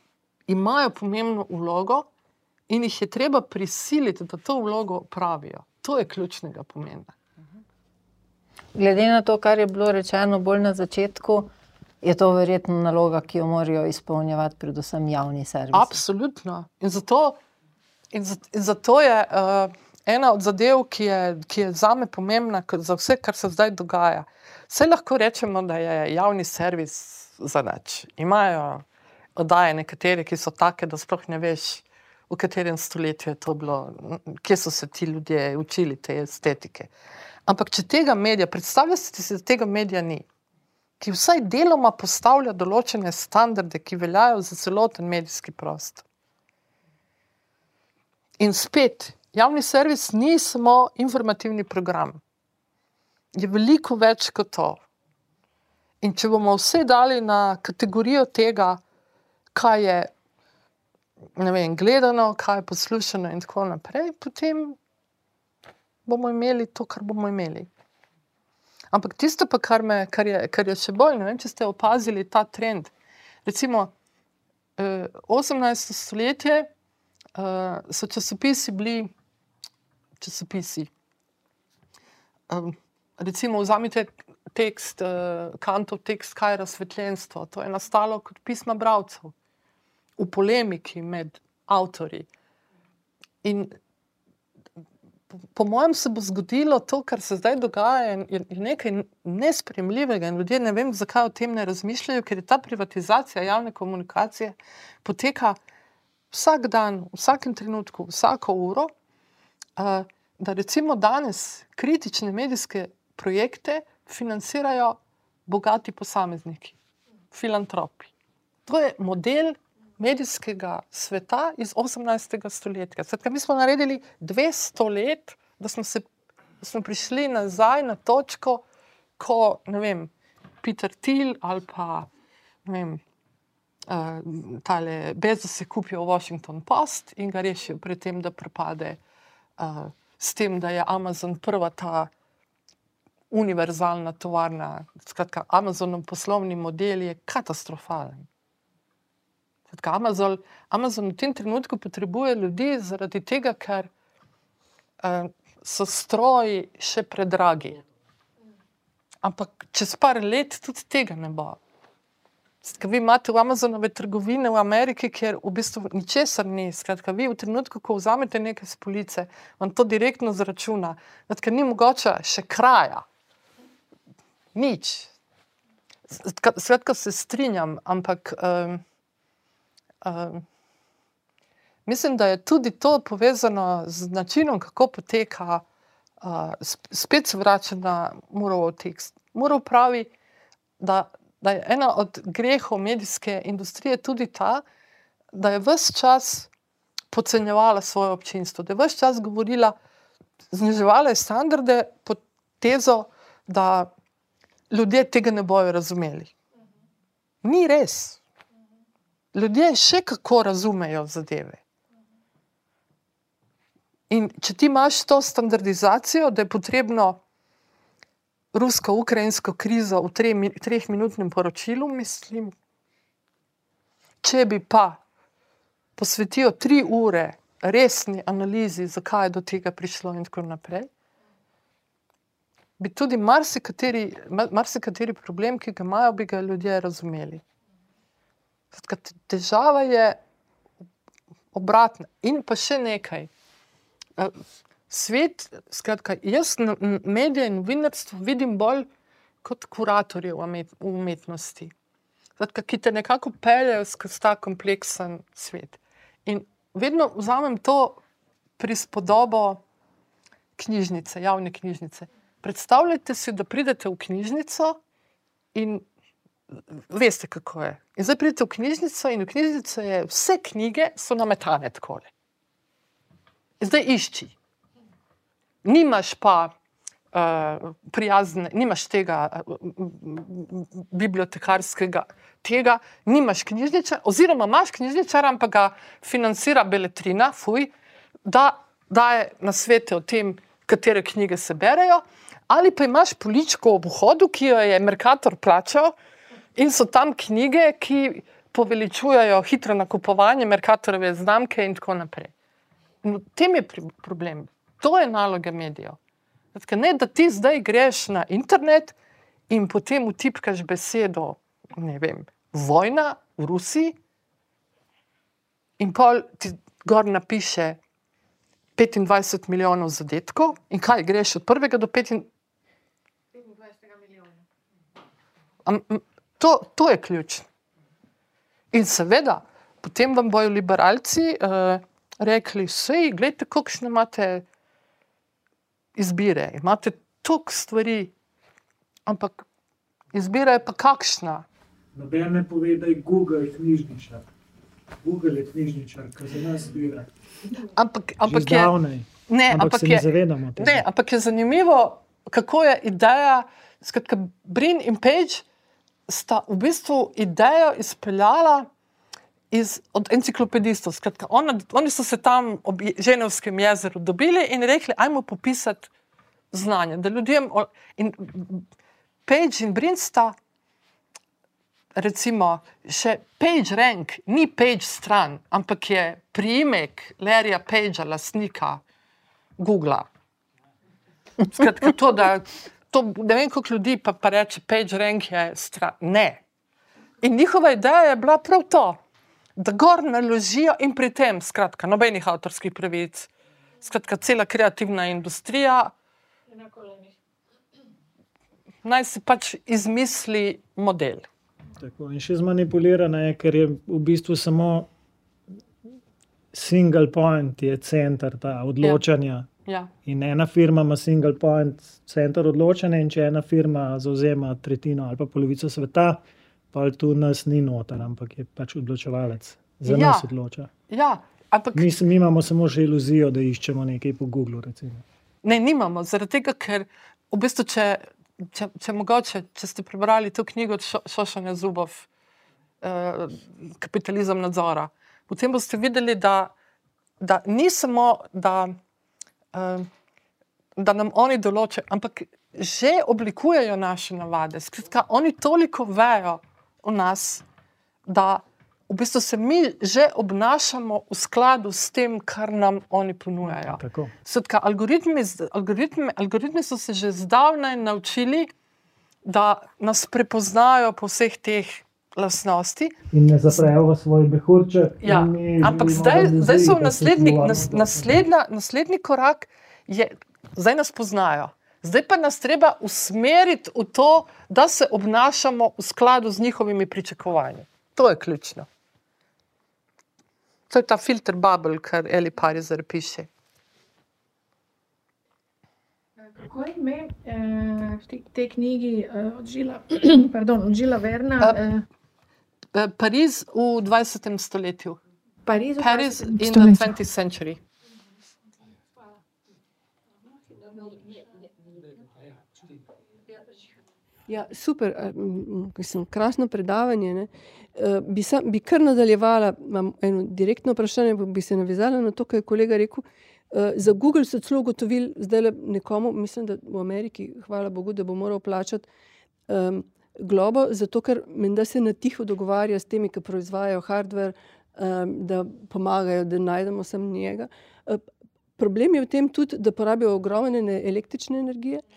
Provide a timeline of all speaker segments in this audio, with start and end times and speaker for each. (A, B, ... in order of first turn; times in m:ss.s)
0:00.5-0:02.1 A
0:02.7-0:07.1 A
0:08.7-0:11.5 B
0:12.0-0:16.0 B
0:15.7-0:17.4 A
0:18.1-0:28.8 A
0:29.4-0:36.9 A
0:37.4-0:40.2 A
0:41.0-0:46.0 A
0:48.4-0:52.2 A
0:53.3-0:54.8 A
0:56.0-0:58.8 A
0:59.5-1:00.1 A
1:01.4-1:04.8 A
1:06.0-1:07.7 A
1:08.9-1:12.9 A
1:13.4-1:13.9 A
1:14.8-1:16.7 A
1:17.3-1:19.1 A
1:20.2-1:20.9 A
1:22.5-1:29.3 A
1:30.2-1:32.3 A
1:33.4-1:33.7 A
1:35.5-1:45.6 A
1:46.3-1:48.9 A
1:49.8-1:56.8 A
1:57.3-1:58.1 A
1:58.6-2:06.0 A
2:06.6-2:08.6 A
2:09.2-2:12.1 A
2:12.6-2:13.0 A
2:13.9-2:19.0 A
2:19.6-2:22.1 A
2:23.3-2:28.3 A
2:29.7-2:33.9 A
2:35.0-2:37.8 A
2:39.2-2:41.6 A
2:42.6-2:53.0 A
2:54.5-2:55.1 A
2:56.1-2:58.8 A
3:00.0-3:00.4 A
3:01.8-3:05.6 A
3:06.2-3:10.1 A
3:10.8-3:14.6 A
3:15.3-3:16.5 A
3:17.1-3:19.8 A
3:20.5-3:23.9 A
3:24.7-3:26.3 A
3:27.4-3:28.2 A
3:29.3-3:31.6 A
3:34.1-3:37.2 A
3:38.5-3:42.5 A
3:44.2-3:45.0 A
3:46.0-3:50.9 A
3:52.8-3:57.4 A
3:58.7-4:00.2 A
4:01.5-4:03.3 A
4:04.9-4:08.9 A
4:09.4-4:11.7 A
4:12.4-4:18.0 A
4:18.6-4:19.6 A
4:20.6-4:24.8 A
4:25.5-4:25.8 A
4:26.7-4:32.1 A
4:33.6-4:34.3 A
4:35.6-4:36.5 A
4:37.1-4:47.7 A
4:48.2-4:55.9 A
4:56.5-5:02.3 A
5:03.0-5:06.0 A
5:06.5-5:09.0 A
5:09.5-5:14.0 A
5:15.8-5:17.8 A
5:18.8-5:22.3 A
5:23.4-5:24.3 C
5:25.6-5:27.4 A
5:28.7-5:34.4 A
5:36.0-5:38.1 A
5:39.0-5:39.4 A
5:40.1-5:41.4 A
5:41.9-5:44.3 D
5:45.0-5:47.1 D
5:47.7-5:48.7 A
5:48.2-5:50.8 D
5:49.3-5:55.4 A
5:56.1-5:58.7 A
5:59.5-6:05.9 A
6:06.5-6:08.6 A
6:09.2-6:10.4 A
6:11.9-6:18.8 A
6:19.6-6:20.1 A
6:21.4-6:26.4 A
6:27.2-6:29.0 A
6:29.6-6:33.3 A
6:33.8-6:35.9 A
6:36.5-6:37.1 C
6:38.8-6:41.2 A
6:41.8-6:44.9 D
6:46.5-6:49.5 D
6:49.6-6:49.9 A
6:50.0-7:00.7 D
6:59.8-7:00.3 A
7:00.9-7:01.9 A
7:01.7-7:05.0 D
7:05.4-7:12.1 A
7:12.8-7:16.5 A
7:17.2-7:18.7 A
7:19.5-7:19.9 A
7:20.8-7:27.4 A
7:28.0-7:38.5 A
7:33.5-7:34.1 D
7:39.2-7:43.7 A
7:43.1-7:48.1 D
7:45.0-7:58.7 A
8:00.7-8:03.3 A
8:06.2-8:11.8 C
8:12.7-8:15.0 A
8:15.4-8:16.9 C
8:15.8-8:17.6 A
8:24.3-8:38.9 E
8:39.5-8:48.0 E
8:48.6-8:51.8 E